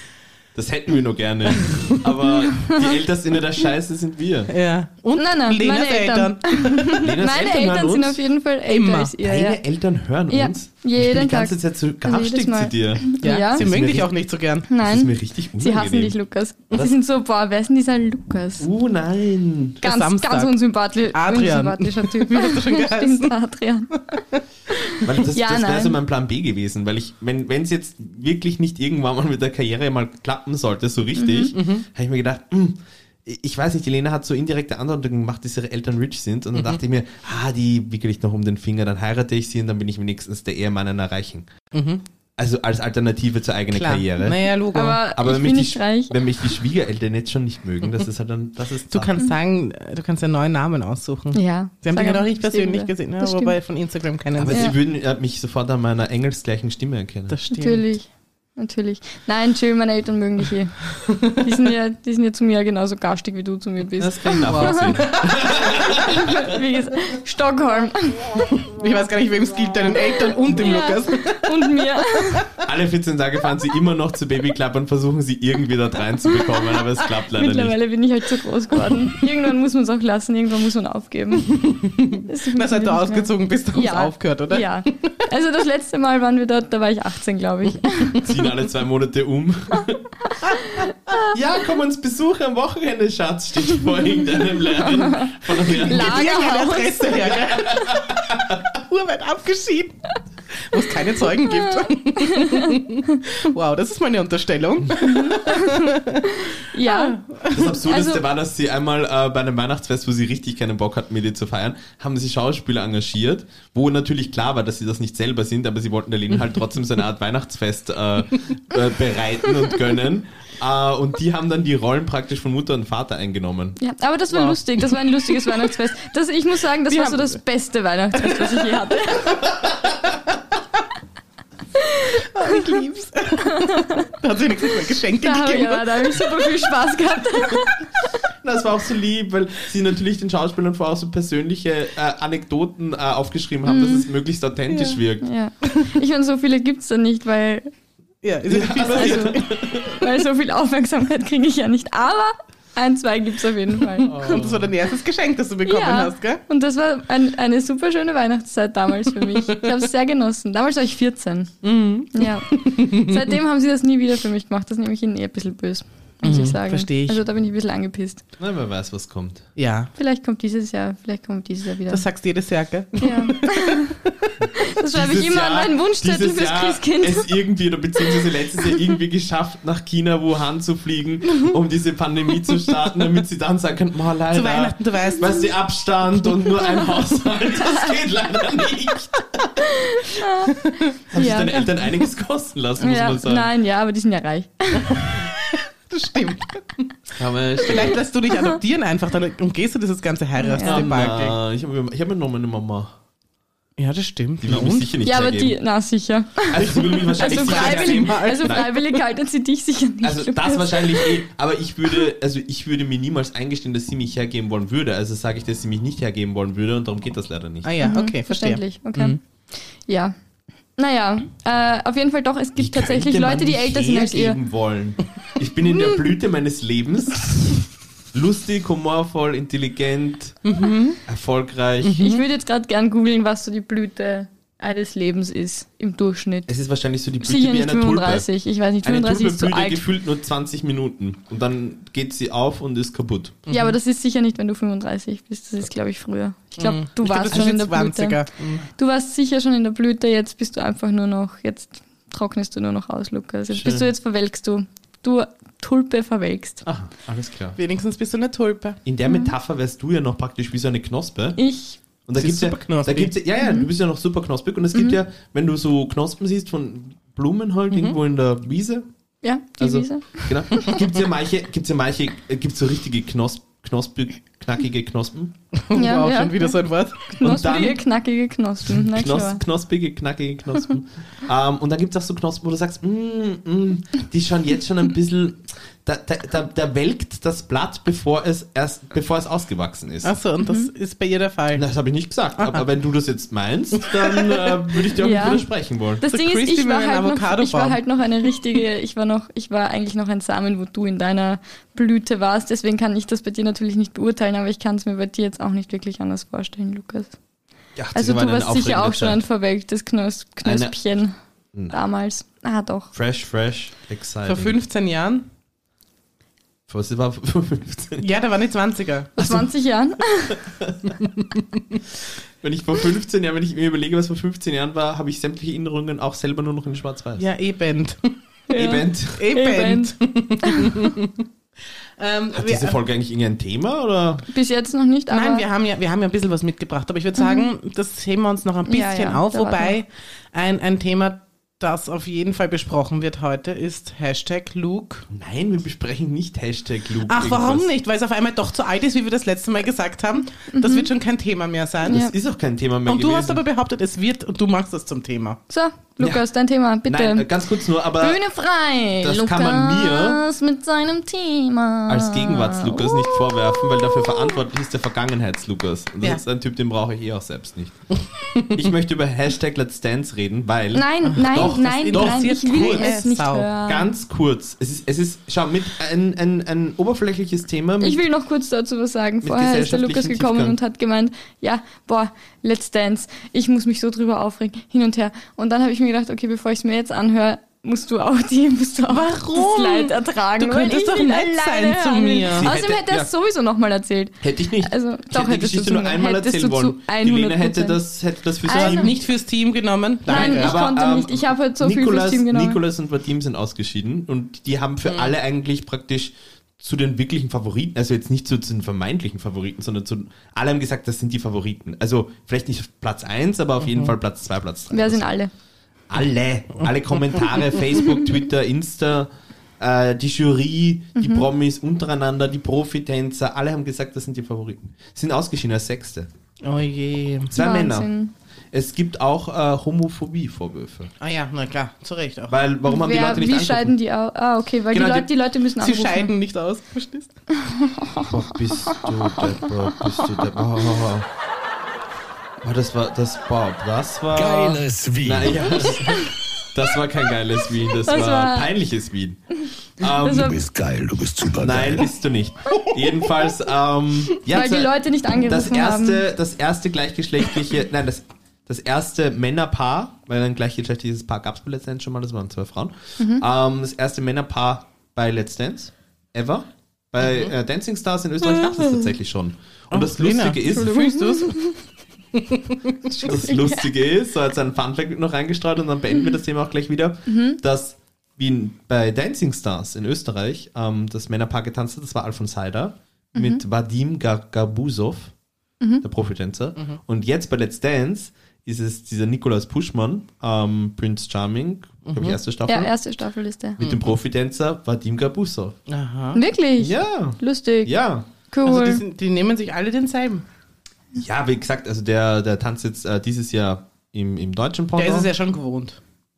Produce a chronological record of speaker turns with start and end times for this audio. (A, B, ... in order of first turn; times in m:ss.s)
0:00.5-0:04.5 A
0:01.5-0:02.1 B
0:02.3-0:03.0 C
0:04.5-0:07.1 B
0:05.2-0:09.6 C
0:07.0-0:08.2 A
0:08.7-0:09.1 B
0:09.2-0:13.0 A
0:10.3-0:13.6 C
0:13.2-0:14.7 B
0:13.6-0:14.1 A
0:14.7-0:18.7 C
0:14.8-0:16.1 A
0:18.6-0:19.8 A
0:19.8-0:26.0 C
0:19.8-0:20.6 B
0:21.1-0:23.3 B
0:25.0-0:41.5 A
0:31.2-0:31.5 C
0:31.5-0:31.8 B
0:41.7-0:42.0 B
0:42.4-0:44.4 A
0:43.7-0:45.0 B
0:44.7-0:46.2 C
0:45.1-0:49.1 A
0:48.9-0:54.7 B
0:51.3-0:53.5 C
0:54.4-0:57.3 A
0:57.3-0:57.8 B
0:57.5-1:08.4 C
1:04.0-1:06.5 A
1:04.4-1:05.1 B
1:08.6-1:12.6 B
1:10.5-1:12.5 C
1:12.6-1:17.8 A
1:17.3-1:28.2 C
1:21.5-1:25.1 B
1:28.2-1:30.0 A
1:30.8-1:31.2 C
1:31.3-1:36.2 A
1:35.0-1:37.2 C
1:35.7-1:47.7 B
1:37.2-1:38.7 A
1:41.5-1:43.2 C
1:45.0-1:47.2 C
1:47.5-2:03.8 A
1:47.8-1:48.2 C
2:03.8-2:09.5 C
2:04.3-2:05.6 B
2:06.9-2:07.4 B
2:08.2-2:08.7 B
2:09.5-2:10.2 A
2:11.8-2:12.8 C
2:12.3-2:16.5 B
2:13.3-2:14.1 C
2:14.7-2:17.9 C
2:18.4-2:25.2 A
2:23.6-2:24.1 C
2:25.2-2:27.7 C
2:28.2-2:29.9 B
2:28.5-2:29.9 A
2:28.8-2:34.4 C
2:34.0-2:34.7 A
2:34.1-2:36.4 B
2:35.6-2:41.5 C
2:41.6-2:43.3 B
2:42.1-2:48.2 C
2:46.2-2:47.2 B
2:48.4-2:49.4 A
2:49.6-2:49.9 B
2:50.0-2:52.0 C
2:51.9-2:54.3 B
2:53.0-2:53.9 C
2:54.4-3:09.6 A
2:54.6-2:57.3 C
2:58.0-2:58.8 C
3:04.3-3:05.5 B
3:09.6-3:10.6 C
3:11.1-3:13.5 A
3:11.1-3:11.6 C
3:12.8-3:15.3 C
3:14.9-3:16.9 B
3:17.1-3:18.0 A
3:17.6-3:21.4 B
3:18.3-3:18.6 C
3:20.4-3:20.9 C
3:20.6-3:22.9 A
3:23.8-3:24.9 B
3:24.4-3:25.6 A
3:25.0-3:31.2 C
3:26.5-3:28.6 A
3:27.2-3:28.8 B
3:30.0-3:37.7 A
3:37.6-3:39.2 B
3:37.8-3:39.2 C
3:39.8-3:40.1 C
3:40.8-3:44.4 C
3:42.6-3:47.6 A
3:48.1-3:50.4 A
3:50.4-3:51.0 B
3:51.0-3:52.1 A
3:51.8-3:52.2 B
3:52.0-3:56.5 C
3:56.5-3:58.3 A
3:57.2-3:59.8 C
3:58.8-4:03.4 A
4:03.5-4:03.7 B
4:03.5-4:08.2 C
4:06.6-4:08.7 B
4:08.8-4:16.6 C
4:13.5-4:13.9 A
4:16.6-4:17.6 A
4:17.6-4:18.8 B
4:18.8-4:21.4 A
4:21.4-4:21.8 C
4:22.0-4:28.8 A
4:22.1-4:23.1 B
4:29.2-4:30.8 C
4:29.6-4:35.3 A
4:35.5-4:37.0 B
4:35.7-4:39.4 C
4:37.2-4:37.8 A
4:38.8-4:50.1 A
4:50.0-4:51.6 B
4:50.4-4:50.7 C
4:51.5-4:56.0 A
4:52.4-4:52.6 B
4:53.8-4:54.5 B
4:55.0-4:55.4 C
4:56.0-5:07.1 C
4:56.0-4:57.8 B
5:07.8-5:09.2 A
5:07.9-5:11.1 C
5:10.4-5:10.8 A
5:11.7-5:12.9 C
5:12.9-5:14.6 A
5:14.2-5:15.3 B
5:16.7-5:18.1 A
5:18.0-5:19.2 B
5:19.2-5:19.5 A
5:19.2-5:20.4 C
5:20.4-5:21.0 A
5:22.4-5:27.2 A
5:27.2-5:28.2 B
5:28.5-5:30.8 C
5:28.5-5:29.2 A
5:29.1-5:31.2 B
5:32.0-5:32.8 B
5:32.3-5:34.3 A
5:34.3-5:35.4 C
5:35.1-5:45.1 B
5:37.2-5:37.5 C
5:38.7-5:39.8 C
5:45.1-5:47.7 A
5:47.1-5:52.0 B
5:50.5-5:50.9 C
5:51.8-5:52.1 C
5:51.9-5:53.4 A
5:52.8-5:55.4 B
5:55.5-5:57.3 C
5:56.8-5:58.2 A
5:57.9-6:04.3 C
5:59.0-6:00.2 A
6:01.9-6:07.8 A
6:08.2-6:08.6 B
6:08.5-6:12.9 A
6:10.7-6:13.9 C
6:11.0-6:13.5 B
6:13.6-6:18.0 A
6:17.8-6:37.8 C
6:19.2-6:20.6 A
6:28.9-6:32.5 B
6:32.3-6:33.1 A
6:34.2-6:38.9 A
6:38.4-6:38.9 C
6:38.5-6:40.6 B
6:40.1-6:42.6 C
6:40.1-6:55.1 A
6:54.7-6:55.3 C
6:55.9-7:06.1 A
7:01.0-7:01.2 C
7:06.4-7:07.3 B
7:07.3-7:07.9 A
7:07.3-7:08.1 C
7:08.5-7:10.9 A
7:11.0-7:12.4 B
7:12.3-7:13.7 A
7:12.6-7:16.1 C
7:14.7-7:15.1 A
7:15.6-7:17.1 B
7:17.4-7:20.3 C
7:18.0-7:21.1 A
7:22.4-7:29.2 A
7:24.1-7:25.8 D
7:25.7-7:26.1 C
7:27.8-7:28.5 C
7:29.8-7:30.4 A
7:30.0-7:30.4 C
7:30.1-7:31.9 D
7:31.4-7:50.8 A
7:34.3-7:36.0 C
7:43.0-7:43.2 C
7:49.7-7:51.4 B
7:50.5-7:51.6 C
7:52.1-7:53.0 B
7:53.0-8:05.1 A
7:53.0-7:53.6 C
7:57.1-7:57.4 C
8:03.1-8:03.4 C
8:05.8-8:12.7 A
8:11.8-8:12.2 B
8:12.5-8:13.6 C
8:13.6-8:15.6 A
8:15.7-8:16.2 B
8:16.1-8:17.7 C
8:16.6-8:18.1 A
8:18.3-8:18.8 C
8:18.4-8:20.2 B
8:20.9-8:25.1 A
8:24.8-8:25.8 B